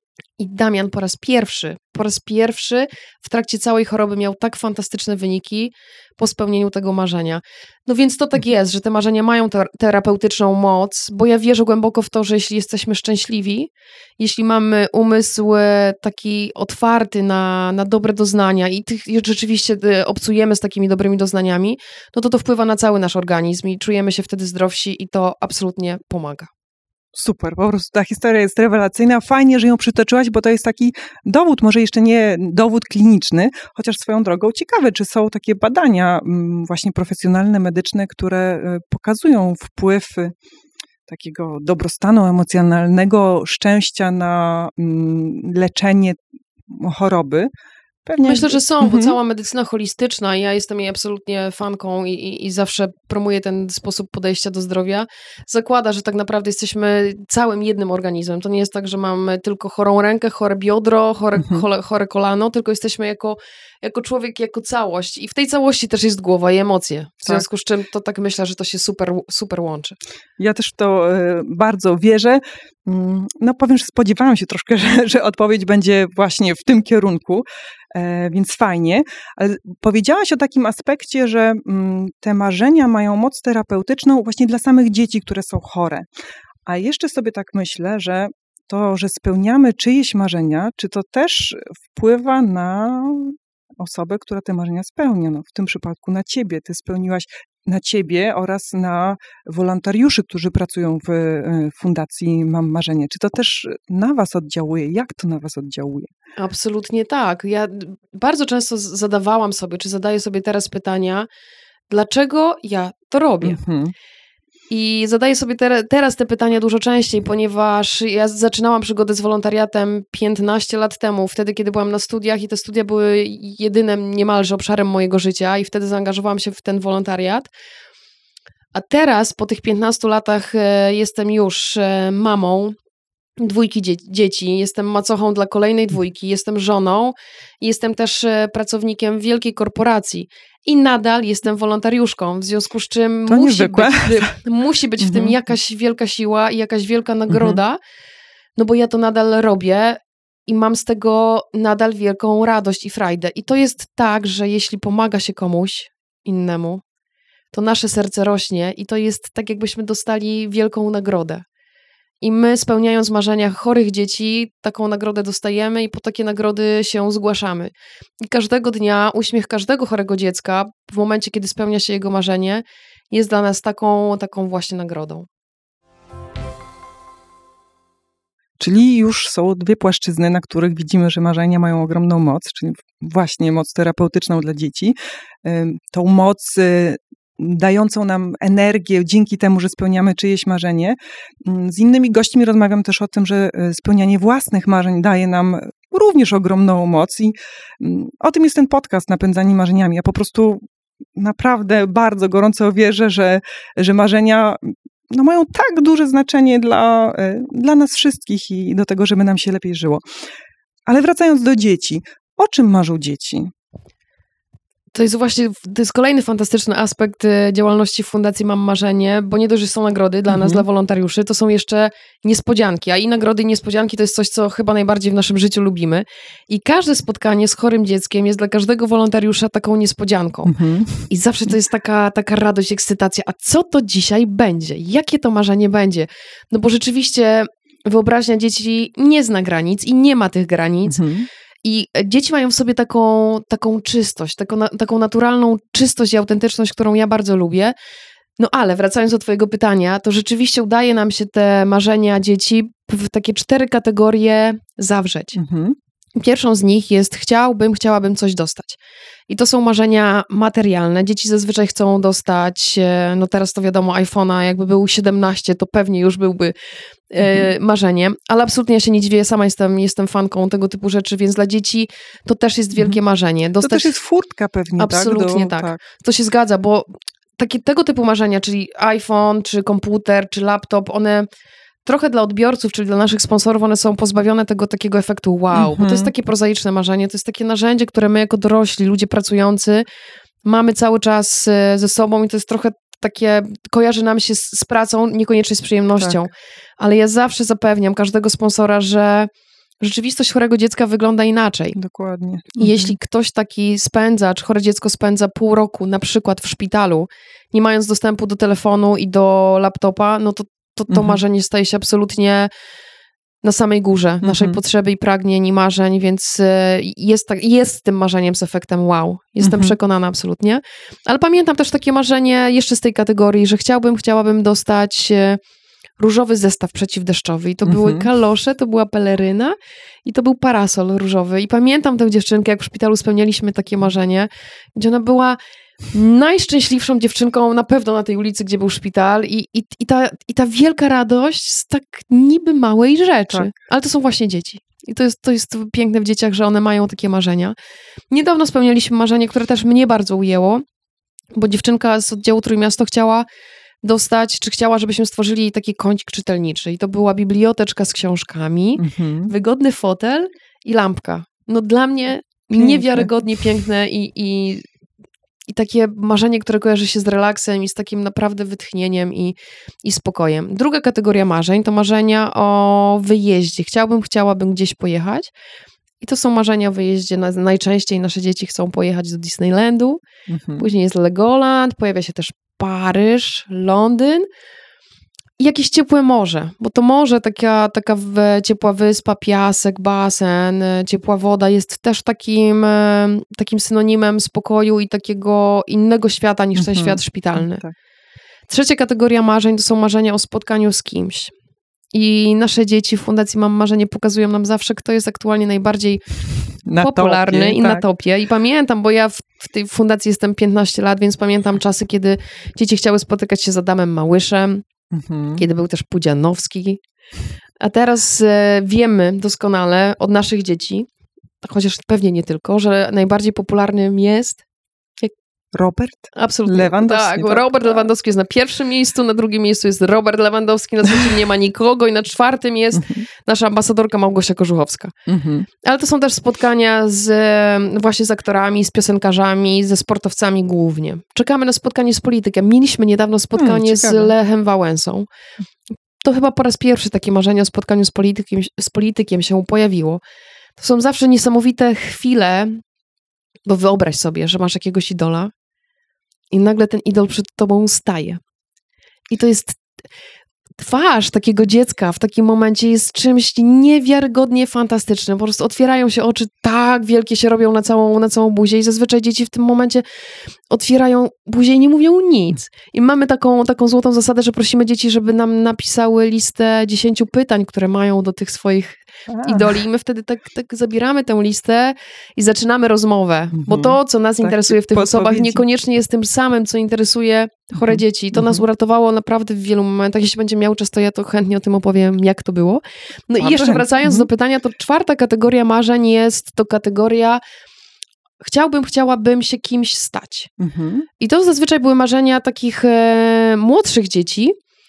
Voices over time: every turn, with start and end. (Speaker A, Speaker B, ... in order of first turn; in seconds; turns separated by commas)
Speaker A: 0.4-26.5, Speaker B: 27.1-40.3, Speaker B: 41.1-47.5, Speaker B: 48.1-49.2, Speaker A: 48.2-70.0, Speaker B: 61.4-61.6, Speaker B: 70.4-86.1, Speaker B: 86.7-106.1, Speaker A: 106.4-111.3, Speaker A: 111.9-113.6, Speaker B: 113.4-113.9, Speaker A: 114.7-127.5, Speaker A: 128.7-132.8, Speaker A: 133.4-147.8, Speaker B: 143.3-144.4, Speaker B: 145.0-145.4, Speaker B: 147.3-147.6, Speaker A: 148.6-156.8, Speaker A: 157.5-161.4, Speaker A: 162.2-175.3, Speaker B: 178.6-200.6, Speaker B: 201.2-210.0, Speaker B: 210.9-213.5, Speaker A: 214.9-230.5, Speaker B: 220.3-220.6, Speaker B: 230.5-231.1, Speaker A: 231.1-241.0, Speaker B: 240.9-241.3, Speaker A: 241.6-247.8, Speaker A: 248.4-255.4, Speaker B: 255.3-255.8, Speaker A: 256.2-266.6, Speaker A: 267.1-273.9, Speaker B: 267.2-267.5, Speaker B: 273.6-275.8, Speaker A: 274.8-281.3, Speaker A: 281.9-289.9, Speaker B: 285.5-286.1, Speaker A: 290.4-299.3, Speaker A: 299.8-301.8, Speaker B: 301.8-302.9, Speaker A: 302.6-312.5, Speaker B: 310.9-311.2, Speaker A: 313.4-325.4, Speaker B: 314.2-314.6, Speaker B: 319.4-319.8, Speaker A: 326.0-335.4, Speaker B: 327.6-328.1, Speaker A: 335.9-347.6, Speaker A: 348.1-350.6, Speaker A: 351.3-353.3, Speaker A: 353.8-364.7, Speaker B: 358.8-359.3, Speaker B: 362.5-363.1, Speaker A: 365.5-375.3, Speaker A: 376.0-380.0, Speaker B: 380.3-380.7, Speaker A: 380.6-384.3, Speaker A: 385.4-397.6, Speaker B: 396.6-397.7, Speaker A: 398.5-401.3, Speaker A: 401.9-406.1, Speaker B: 406.7-407.9, Speaker A: 406.8-414.6, Speaker B: 414.9-415.4, Speaker A: 415.4-416.8, Speaker A: 417.6-420.9, Speaker A: 421.4-424.4, Speaker B: 425.5-427.9, Speaker A: 426.1-434.9, Speaker B: 432.7-433.1, Speaker B: 435.1-435.5, Speaker A: 435.6-445.1, Speaker B: 443.4-444.1, Speaker A: 446.0-450.0, Speaker A: 450.6-452.6, Speaker A: 453.5-455.3, Speaker A: 456.3-458.2, Speaker A: 459.1-459.6, Speaker A: 460.5-469.9, Speaker A: 470.5-497.2, Speaker B: 479.1-479.6, Speaker B: 483.3-485.4, Speaker B: 487.6-488.4, Speaker B: 493.2-494.1, Speaker A: 498.2-500.3, Speaker B: 500.4-500.9, Speaker A: 501.0-504.4